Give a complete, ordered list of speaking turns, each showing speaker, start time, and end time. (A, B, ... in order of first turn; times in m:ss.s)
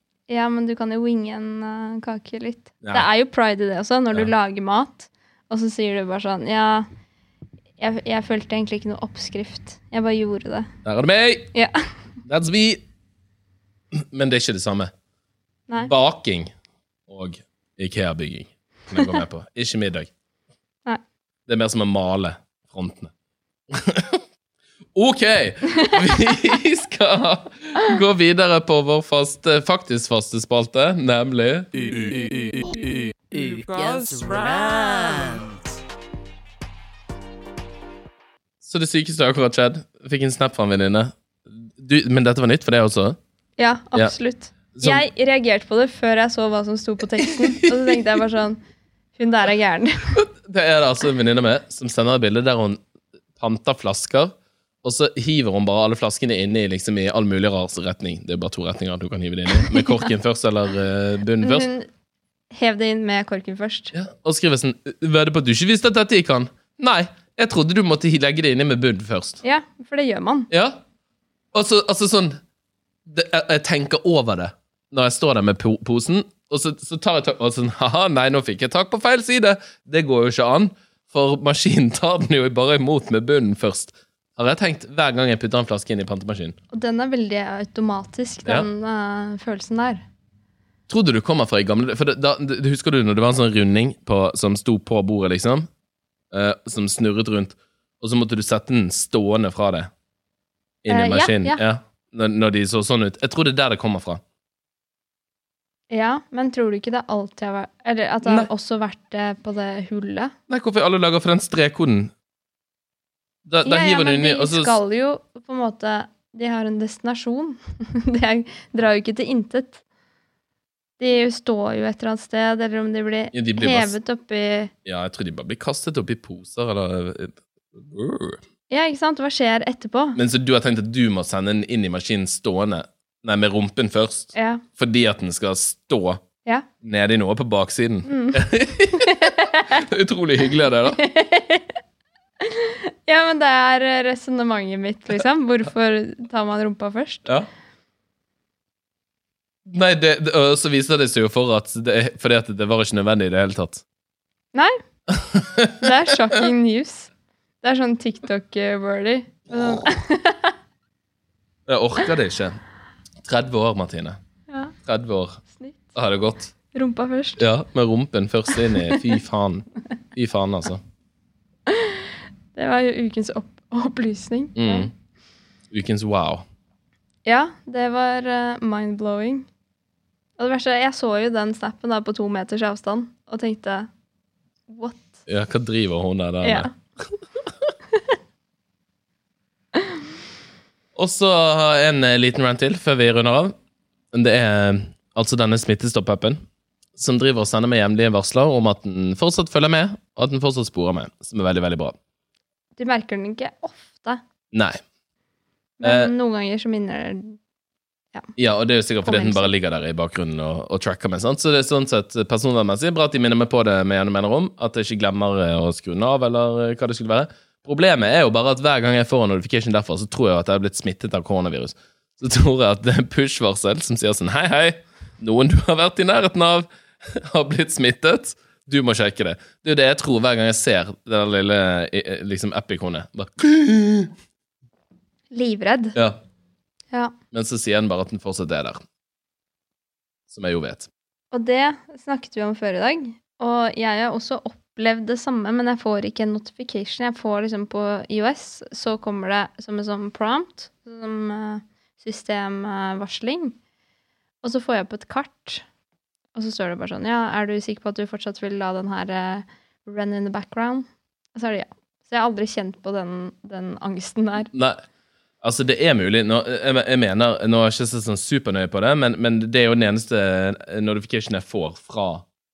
0:00.3-0:06.9 A
0:02.8-0:03.1 B
0:07.8-0:10.7 A
0:10.8-0:11.5 B
0:12.2-0:12.8 B
0:13.9-0:14.9 B
0:15.8-0:16.5 B
0:17.1-0:20.1 B
0:21.5-0:23.1 B
0:23.7-0:24.2 B
0:24.9-0:32.0 B
0:31.9-0:35.6 C
0:38.6-0:43.2 B
0:43.6-0:48.6 A
0:44.7-0:45.0 B
0:49.2-0:50.2 A
0:50.2-0:52.8 B
0:53.4-1:01.7 B
0:59.6-1:00.0 A
1:01.4-1:01.9 A
1:02.5-1:03.9 A
1:03.9-1:09.4 B
1:09.4-1:10.5 A
1:10.5-1:10.8 B
1:11.5-1:12.4 B
1:13.0-1:26.6 B
1:26.7-1:30.0 A
1:30.9-1:35.7 B
1:36.3-1:39.9 B
1:40.8-1:44.2 B
1:40.9-1:41.6 A
1:45.9-1:50.3 A
1:50.5-1:52.1 B
1:53.4-1:54.8 B
1:53.6-1:59.8 A
2:01.0-2:04.7 A
2:03.3-2:03.9 B
2:04.8-2:08.4 B
2:08.7-2:10.2 A
2:10.1-2:16.2 B
2:14.3-2:14.6 A
2:16.8-2:21.0 B
2:18.0-2:18.4 A
2:18.9-2:19.8 A
2:20.9-2:21.8 A
2:22.4-2:27.3 A
2:29.6-2:33.8 B
2:35.1-2:36.1 B
2:35.8-2:37.1 A
2:37.6-2:40.5 A
2:41.7-2:42.6 B
2:43.2-2:44.2 B
2:44.5-2:44.7 A
2:44.8-2:45.4 B
2:45.5-2:45.9 A
2:45.9-2:46.5 B
2:46.7-2:47.4 A
2:47.4-2:50.8 B
2:51.7-2:54.9 A
2:54.5-2:54.9 B
2:55.7-2:56.4 B
2:57.2-2:59.5 A
3:00.4-3:03.9 A
3:04.7-3:05.2 A
3:05.3-3:07.1 B
3:06.4-3:06.7 A
3:10.9-3:13.6 B
3:14.1-3:16.4 B
3:16.9-3:22.0 B
3:22.8-3:24.2 A
3:24.5-3:24.8 B
3:25.8-3:27.4 A
3:25.8-3:26.1 B
3:28.4-3:54.1 B
3:29.0-3:29.5 A
3:55.3-3:56.0 A
3:57.3-3:58.8 B
4:00.3-4:00.9 B
4:01.3-4:13.5 A
4:14.4-4:15.6 A
4:16.3-4:24.5 A
4:24.5-4:24.8 B
4:25.4-4:32.2 B